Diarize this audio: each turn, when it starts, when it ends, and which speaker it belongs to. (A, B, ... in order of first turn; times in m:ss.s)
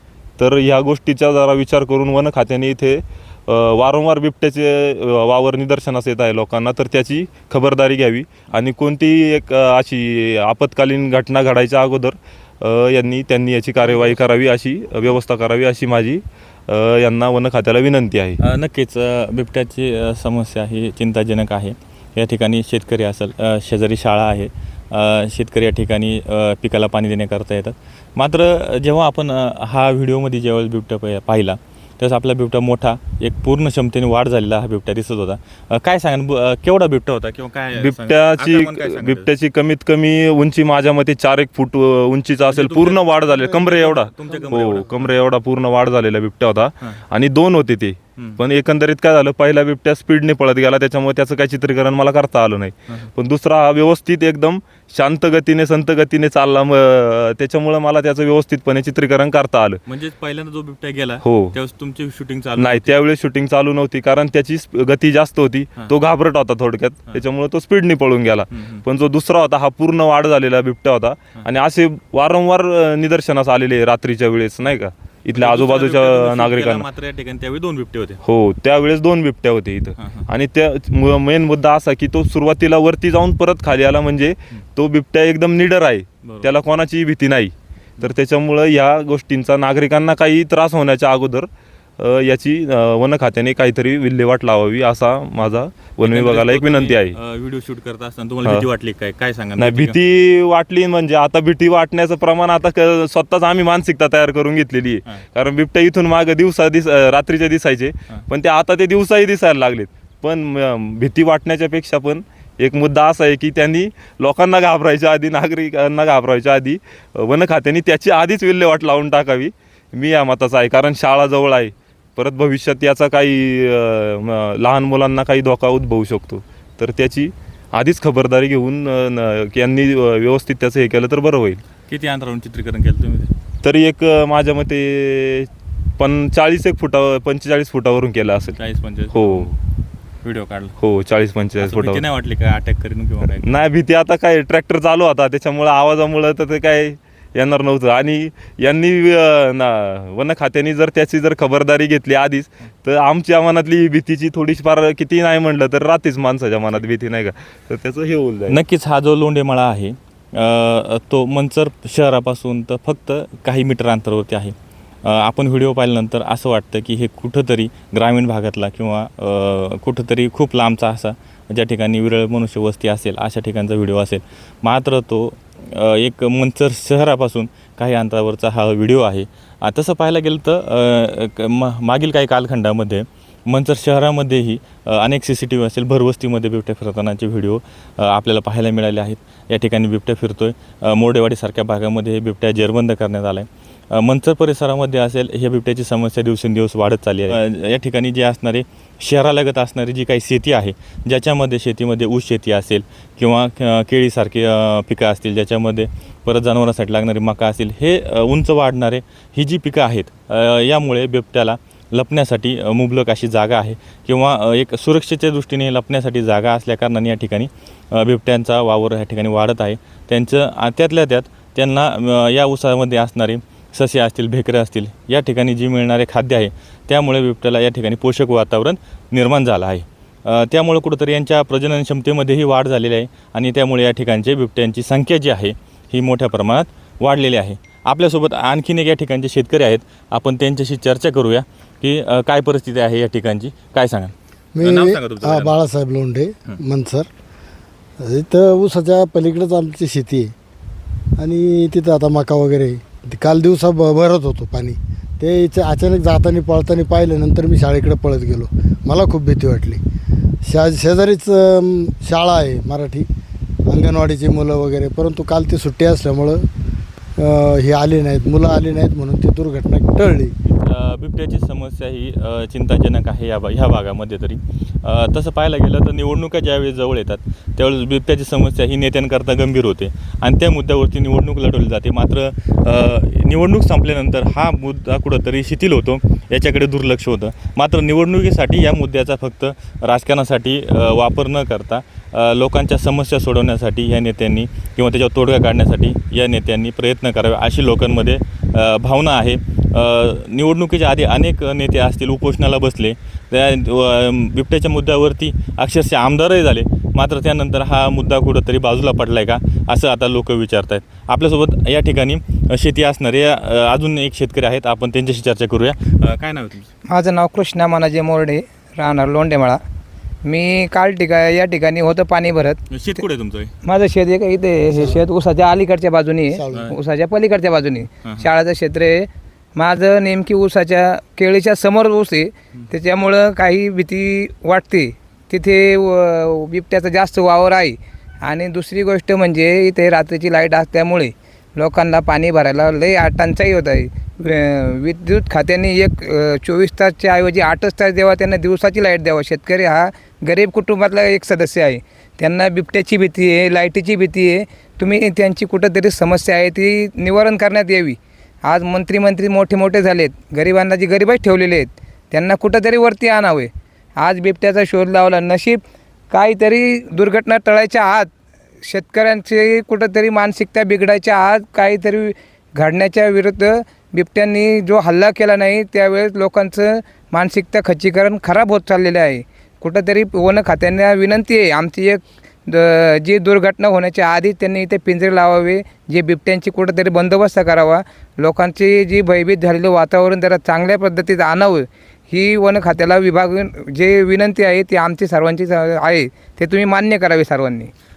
0:00.4-0:18.4 A
0:13.8-0:14.2 B
0:18.4-0:39.3 B
0:37.8-0:59.8 A
0:42.5-0:45.2 B
0:59.8-1:02.9 B
1:01.2-1:01.5 A
1:02.6-1:16.8 A
1:08.5-1:08.8 B
1:15.3-1:18.2 B
1:18.2-1:37.2 A
1:20.0-1:20.3 B
1:26.2-1:26.5 B
1:36.0-1:40.0 B
1:39.6-2:11.6 A
2:11.9-2:13.3 B
2:13.6-2:18.6 A
2:18.6-2:19.5 B
2:19.1-2:19.5 A
2:20.2-2:20.7 B
2:20.8-2:22.0 A
2:21.6-2:23.5 B
2:23.4-2:38.6 A
2:38.5-4:05.6 B
4:04.6-4:07.1 C
4:08.0-4:10.3 C
4:11.2-4:19.8 C
4:20.5-4:23.1 C
4:23.7-4:26.4 C
4:27.2-4:30.3 C
4:30.4-5:16.7 B
5:16.9-5:19.6 D
5:20.2-5:22.6 D
5:22.7-5:23.5 B
5:23.6-6:08.1 D
5:26.5-5:26.8 B
6:08.6-6:37.7 D